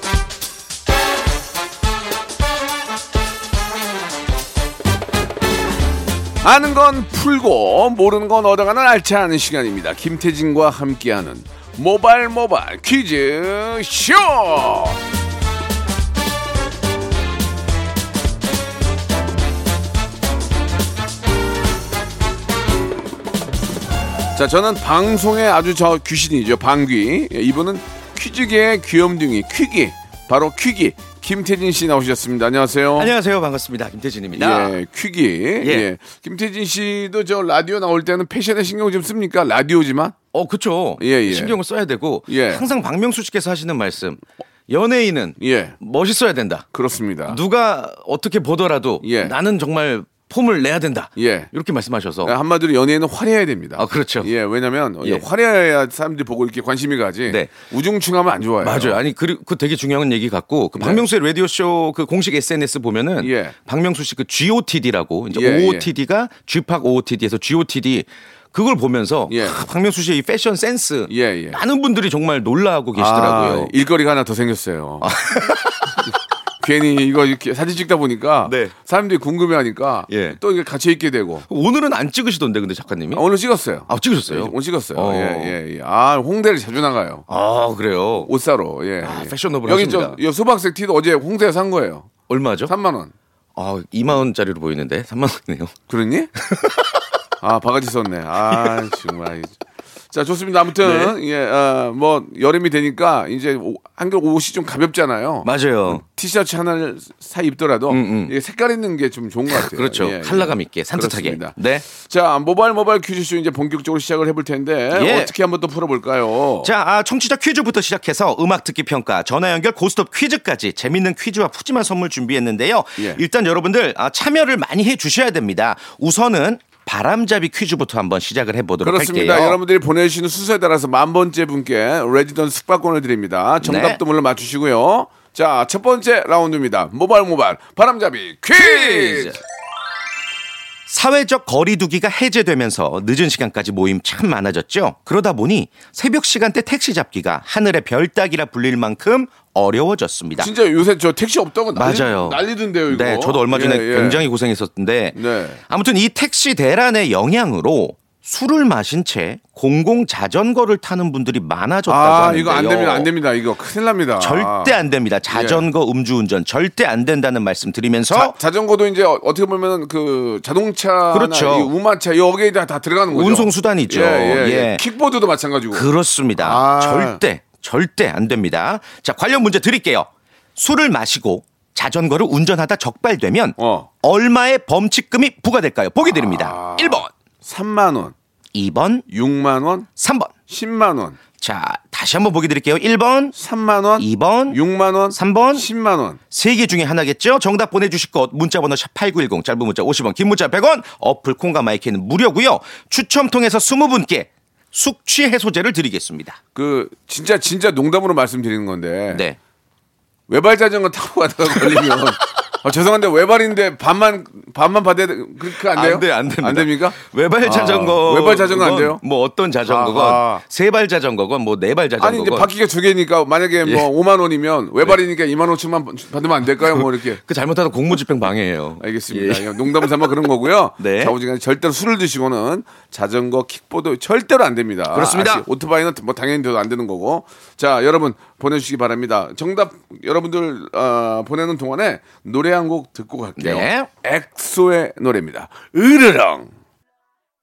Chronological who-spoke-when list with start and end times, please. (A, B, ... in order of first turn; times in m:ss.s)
0:06.4-0:15.0 A
0:24.3-0:33.1 A
0:33.0-0:34.8 B
0:34.3-0:40.2 A
0:35.6-0:35.9 B
0:40.3-0:46.6 B
0:41.0-0:41.5 A
0:42.3-0:42.6 A
0:45.4-0:45.8 A
0:46.7-0:47.4 A
0:47.3-0:52.3 B
0:49.0-0:49.3 A
0:51.2-0:51.5 A
0:52.2-0:59.0 A
0:53.8-0:54.3 B
0:58.6-1:13.7 B
1:00.8-1:01.0 A
1:03.2-1:03.6 A
1:05.3-1:05.9 A
1:09.3-1:09.6 A
1:11.1-1:11.6 A
1:12.9-1:15.1 A
1:15.0-1:16.0 B
1:16.6-1:21.5 A
1:18.4-1:18.7 B
1:20.1-1:20.4 B
1:21.5-1:23.2 B
1:23.1-1:27.2 A
1:23.9-1:25.6 B
1:27.3-1:28.3 B
1:28.2-1:32.1 A
1:29.0-1:30.2 B
1:32.3-1:32.7 B
1:32.7-1:33.1 A
1:33.6-1:35.7 B
1:35.9-1:36.3 A
1:36.4-1:37.0 B
1:37.4-1:39.5 A
1:40.1-1:56.7 A
1:40.8-1:41.1 B
1:45.4-1:46.0 B
1:47.9-1:48.3 B
1:49.5-1:51.8 B
1:54.9-1:55.3 B
1:56.6-2:09.6 B
2:08.8-2:19.4 A
2:13.6-2:14.0 B
2:18.5-2:19.4 B
2:20.9-2:30.5 B
2:30.4-2:34.2 A
2:31.8-2:43.1 B
2:35.1-2:35.6 A
2:41.9-2:44.7 A
2:44.2-2:48.3 B
2:45.3-2:45.6 A
2:48.1-2:57.2 A
2:51.1-2:51.7 B
2:53.1-2:54.8 B
2:55.7-3:07.1 B
3:03.6-3:03.9 A
3:06.0-3:08.1 A
3:08.5-3:09.1 B
3:09.1-3:09.9 A
3:10.0-3:10.3 B
3:10.5-3:11.2 A
3:11.4-3:13.3 B
3:13.4-3:16.2 A
3:14.0-3:14.6 B
3:15.1-3:15.7 B
3:16.3-3:26.4 B
3:26.5-3:29.2 A
3:29.1-3:29.4 B
3:30.3-3:39.0 A
3:31.5-3:32.0 B
3:35.7-3:42.5 B
3:39.6-3:40.4 A
3:42.0-3:47.2 A
3:46.6-3:50.2 B
3:48.8-4:06.5 A
3:50.8-3:51.1 B
3:54.9-3:55.4 B
4:03.4-4:03.9 B